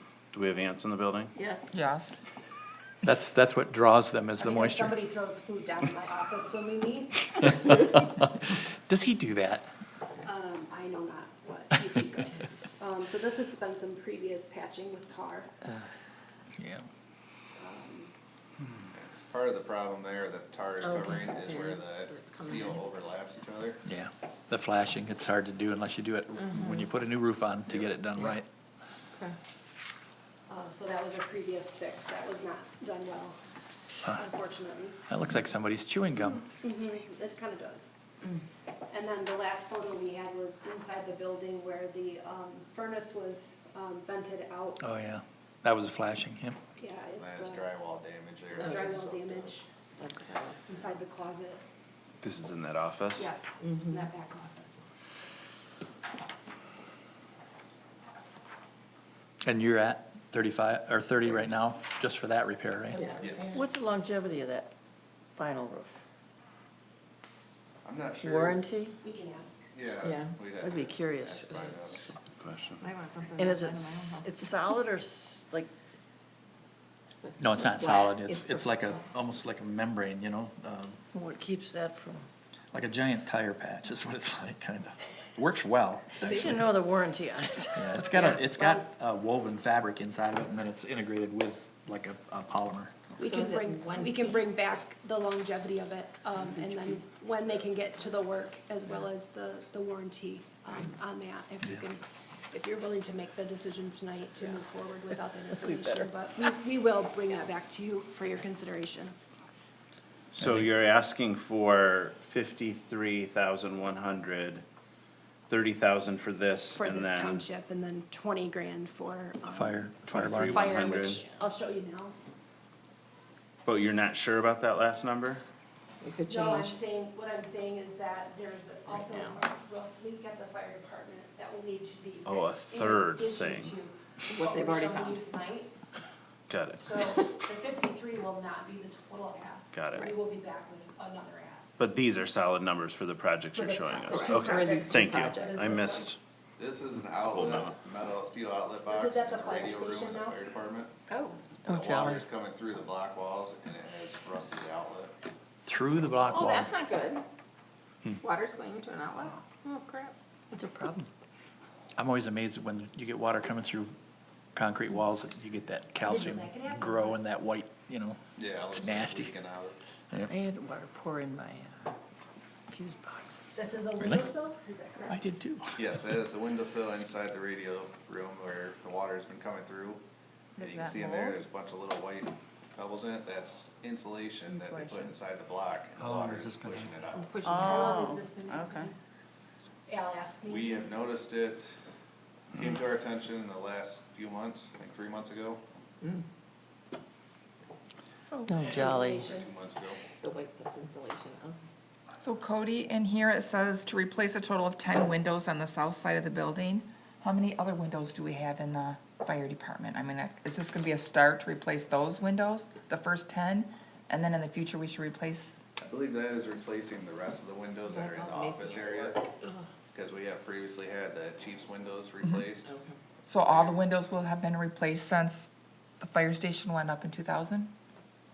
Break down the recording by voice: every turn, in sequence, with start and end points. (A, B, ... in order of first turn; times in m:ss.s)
0:00.3-0:01.3 A
0:01.3-0:01.7 B
0:01.7-0:02.2 C
0:03.0-0:05.0 D
0:04.4-0:08.0 E
0:08.9-0:09.7 D
0:10.2-0:15.5 E
0:16.6-0:16.8 D
0:17.6-0:18.1 E
0:18.9-0:23.8 F
0:20.8-0:22.8 B
0:23.8-0:28.5 D
0:26.4-0:26.7 B
0:30.5-0:33.4 E
0:34.1-0:35.0 E
0:35.1-0:36.4 D
0:36.6-0:38.0 E
0:38.9-0:44.8 E
0:44.8-0:46.6 D
0:46.8-0:47.7 E
0:47.2-0:49.5 F
0:48.5-0:49.6 E
0:50.0-0:50.6 G
0:50.6-0:51.6 E
0:52.2-0:53.3 A
0:53.1-0:54.9 E
0:53.6-0:53.9 B
0:59.4-1:03.1 D
1:02.9-1:03.4 B
1:03.2-1:03.5 F
1:03.5-1:04.7 G
1:05.4-1:06.0 G
1:07.8-1:08.6 F
1:08.2-1:09.0 G
1:09.0-1:09.6 E
1:09.7-1:12.1 F
1:10.0-1:10.3 B
1:10.6-1:12.1 G
1:12.4-1:12.8 A
1:12.8-1:14.3 B
1:13.4-1:15.7 G
1:17.2-1:18.6 B
1:17.4-1:21.0 D
1:21.1-1:22.2 G
1:22.7-1:26.8 D
1:26.2-1:28.8 G
1:27.7-1:32.9 D
1:33.2-1:49.1 E
1:33.2-1:34.6 B
1:45.5-1:46.1 G
1:50.3-1:54.6 A
1:50.4-1:50.7 D
1:55.5-1:57.4 A
1:56.7-1:59.8 E
1:59.4-2:01.0 D
2:00.1-2:01.2 A
2:00.4-2:02.1 E
2:03.6-2:05.4 A
2:06.0-2:06.8 B
2:06.3-2:15.7 E
2:08.9-2:09.4 A
2:12.2-2:13.8 A
2:14.3-2:15.2 B
2:16.5-2:16.9 A
2:16.8-2:21.8 E
2:19.7-2:20.1 A
2:21.8-2:26.2 A
2:23.5-2:26.1 E
2:24.0-2:25.5 B
2:26.6-2:30.9 F
2:27.2-2:27.8 A
2:28.9-2:30.4 E
2:31.1-2:31.4 B
2:31.6-2:32.2 G
2:31.7-2:35.1 F
2:35.6-2:36.8 D
2:36.3-2:37.2 B
2:38.2-2:40.1 B
2:40.5-2:41.1 G
2:42.0-2:43.9 D
2:44.5-2:48.2 D
2:46.0-2:47.2 E
2:48.4-2:49.8 F
2:48.7-2:49.4 D
2:50.2-2:51.9 G
2:52.7-2:53.6 G
2:53.5-2:55.2 E
2:54.0-2:54.3 D
2:55.1-2:56.2 D
2:55.8-3:00.0 F
3:00.6-3:08.0 F
3:00.6-3:01.4 C
3:04.5-3:05.1 C
3:07.3-3:07.8 B
3:07.4-3:08.9 C
3:07.4-3:08.9 E
3:09.9-3:10.9 E
3:10.4-3:11.8 F
3:12.5-3:15.6 F
3:18.2-3:18.6 C
3:18.5-3:19.3 G
3:18.6-3:19.4 E
3:18.9-3:20.0 F
3:20.2-3:21.6 B
3:22.2-3:35.6 C
3:35.8-3:39.3 F
3:37.8-3:39.6 B
3:39.9-3:42.7 F
3:42.6-3:43.0 B
3:43.3-3:45.5 C
3:43.3-3:43.8 F
3:46.0-3:47.7 C